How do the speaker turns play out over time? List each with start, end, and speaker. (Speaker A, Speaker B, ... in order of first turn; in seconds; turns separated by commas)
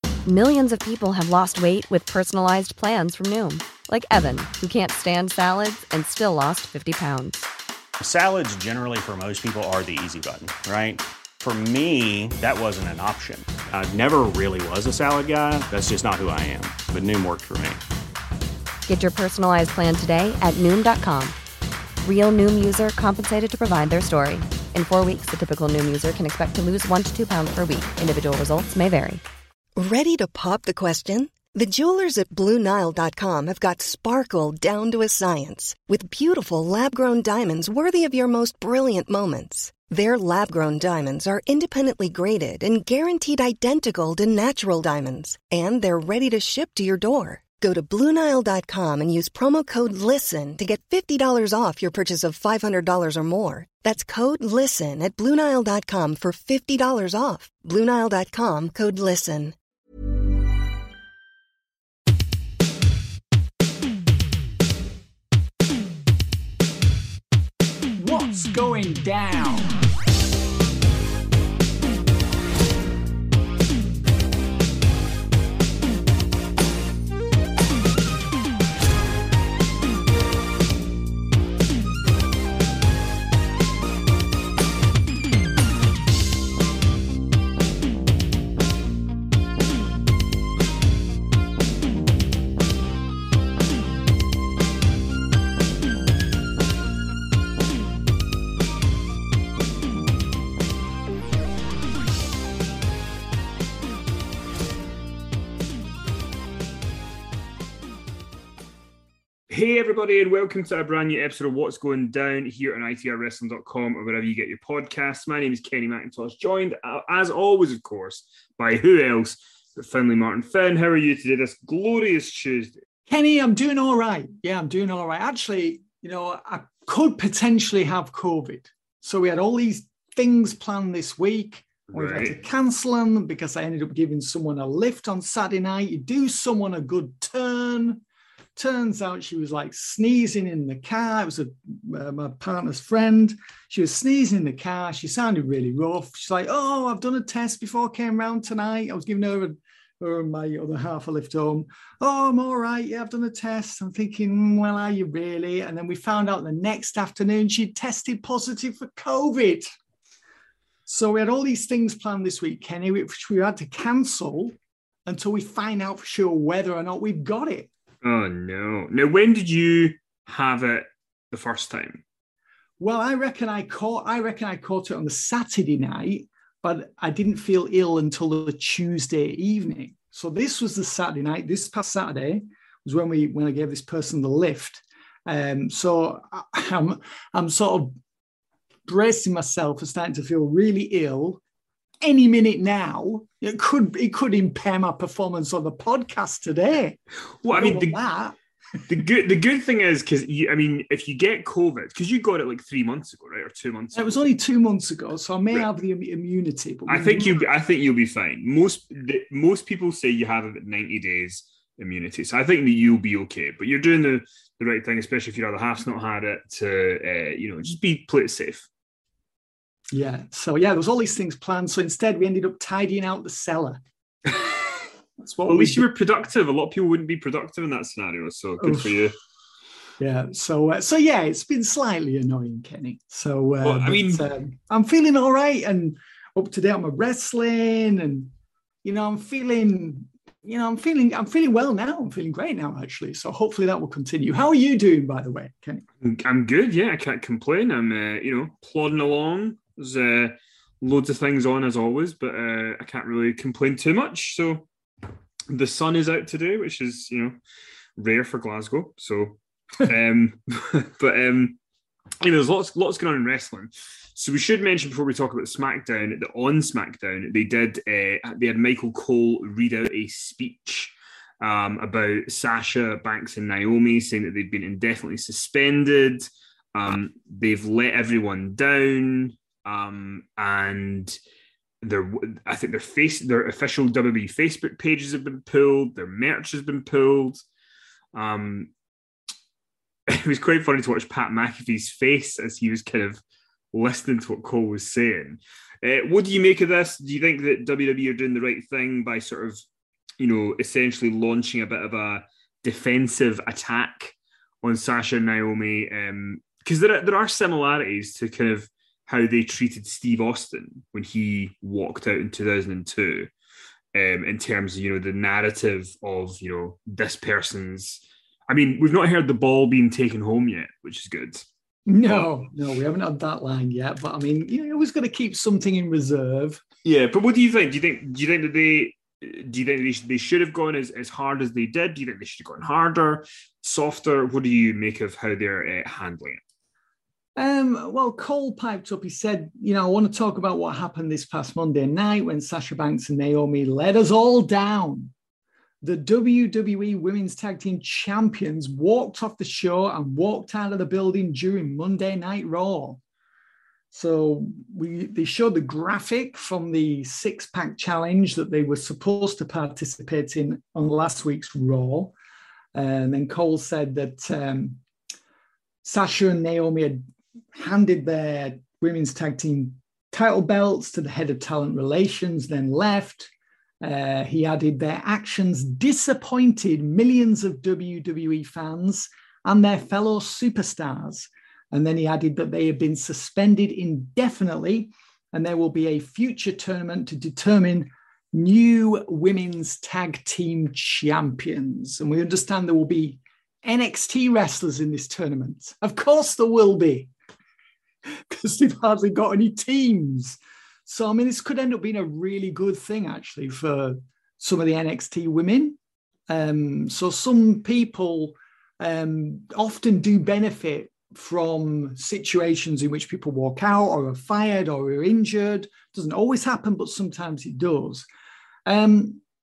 Speaker A: 0.2-7.5, Speaker B: 8.0-17.8, Speaker A: 18.9-21.4, Speaker A: 22.0-29.2, Speaker C: 29.8-59.5, Speaker D: 68.0-69.7, Speaker E: 109.5-122.8, Speaker D: 123.1-138.0, Speaker E: 131.9-132.3, Speaker D: 138.6-159.7, Speaker D: 160.9-164.5, Speaker D: 165.1-167.7, Speaker E: 168.0-172.0, Speaker D: 172.8-187.9, Speaker D: 188.9-191.4, Speaker D: 192.0-197.0, Speaker E: 197.4-198.0, Speaker D: 197.5-198.3, Speaker E: 198.9-204.1, Speaker D: 203.9-207.3, Speaker E: 206.9-218.7, Speaker D: 219.9-223.8, Speaker D: 225.2-225.8, Speaker E: 225.5-229.1, Speaker D: 228.6-229.0, Speaker D: 230.0-238.3, Speaker E: 233.6-234.2, Speaker D: 238.8-245.8, Speaker E: 246.0-254.7, Speaker E: 255.5-257.4, Speaker E: 258.0-261.6, Speaker E: 262.2-281.1, Speaker E: 281.8-287.4, Speaker E: 288.1-288.7, Speaker E: 290.1-293.2, Speaker E: 293.7-299.6, Speaker E: 300.2-313.3, Speaker E: 313.9-321.4, Speaker D: 321.9-326.6, Speaker E: 322.0-322.5, Speaker E: 326.8-336.4, Speaker D: 337.4-345.1, Speaker D: 345.8-353.0, Speaker D: 353.9-362.1, Speaker D: 362.7-364.8, Speaker D: 365.8-373.3, Speaker D: 373.8-397.1, Speaker D: 398.3-405.8, Speaker D: 406.3-418.1, Speaker D: 418.6-419.2